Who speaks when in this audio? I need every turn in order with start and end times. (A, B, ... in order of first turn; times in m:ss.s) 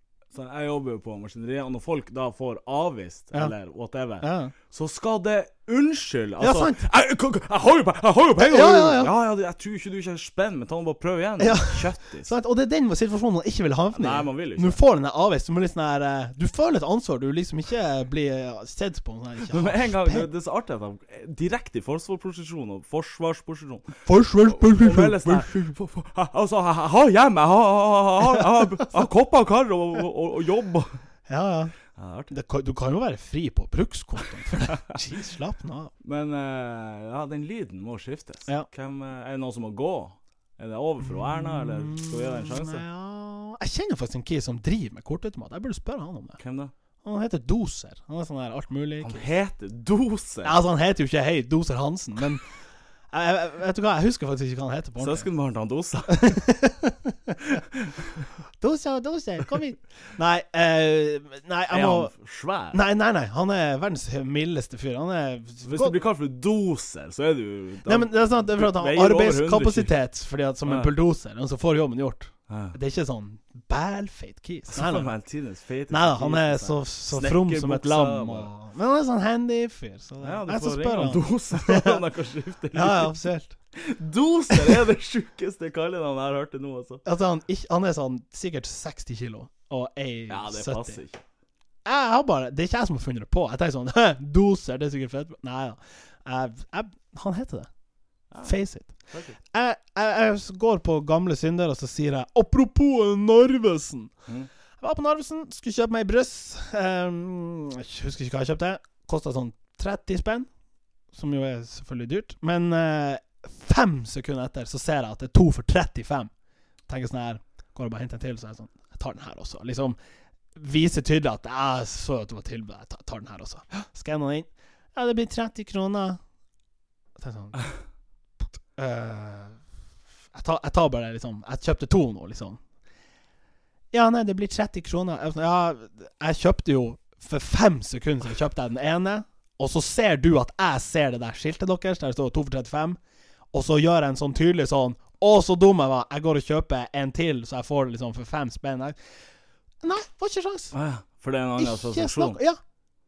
0:00.3-0:12.3 A
0:04.2-0:04.5 B
0:06.4-0:06.8 B
0:08.4-0:09.1 B
0:11.4-0:20.3 B
0:14.0-0:14.8 A
0:19.5-0:30.9 A
0:24.0-0:25.5 B
0:31.3-0:31.7 B
0:32.0-0:32.3 A
0:32.3-0:35.9 B
0:36.0-0:42.8 A
0:41.0-0:46.4 B
0:46.4-0:46.7 A
0:47.0-0:49.3 B
0:49.0-0:50.5 A
0:50.4-0:52.4 B
0:53.1-0:55.3 B
0:55.0-0:56.4 A
0:56.1-0:57.4 B
0:57.6-0:58.2 A
0:58.6-1:02.1 B
1:01.7-1:02.8 A
1:02.7-1:06.0 B
1:05.6-1:09.9 A
1:07.8-1:15.1 B
1:10.6-1:10.9 A
1:12.5-1:12.8 A
1:14.7-1:18.5 A
1:15.9-1:22.0 B
1:20.2-1:23.1 A
1:22.7-1:23.6 B
1:23.7-1:27.0 A
1:27.0-1:31.0 B
1:30.3-1:31.2 A
1:31.8-1:37.7 B
1:38.4-1:39.0 B
1:39.1-1:39.4 A
1:39.5-1:44.1 B
1:44.8-1:50.5 B
1:51.1-1:56.3 B
1:56.9-2:00.0 B
2:00.5-2:06.2 B
2:07.2-2:07.6 B
2:08.8-2:09.6 B
2:10.3-2:12.6 B
2:13.9-2:23.0 B
2:23.5-2:29.0 B
2:29.8-2:30.7 B
2:30.7-2:32.4 A
2:31.6-2:32.6 B